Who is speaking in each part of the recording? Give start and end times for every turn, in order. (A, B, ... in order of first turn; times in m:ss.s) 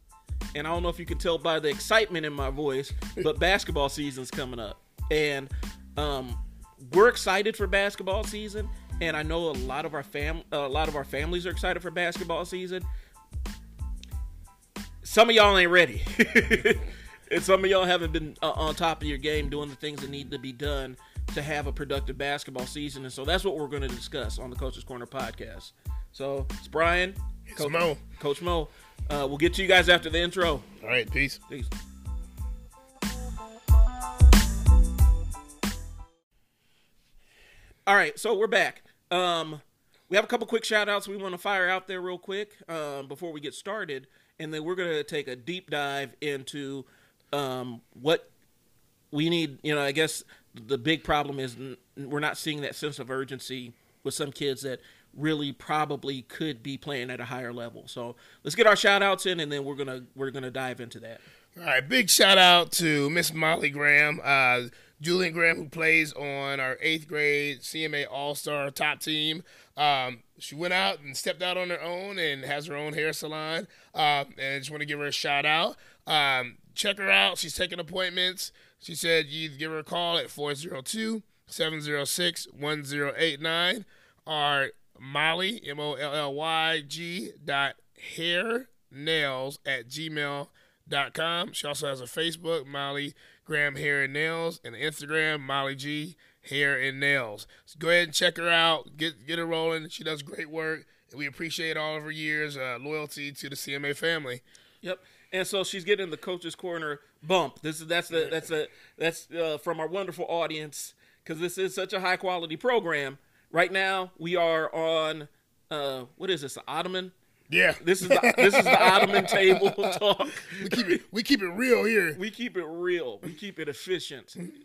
0:00.5-0:12.8 A
0:15.0-0:30.7 A
0:27.5-0:28.0 B
0:30.8-0:31.4 B
0:37.8-0:48.3 A
0:49.1-1:01.2 A
1:01.6-1:44.4 B
1:44.8-1:57.1 A
1:57.5-1:59.9 B
1:57.8-2:01.0 A
2:00.5-2:02.2 B
2:02.1-2:04.4 A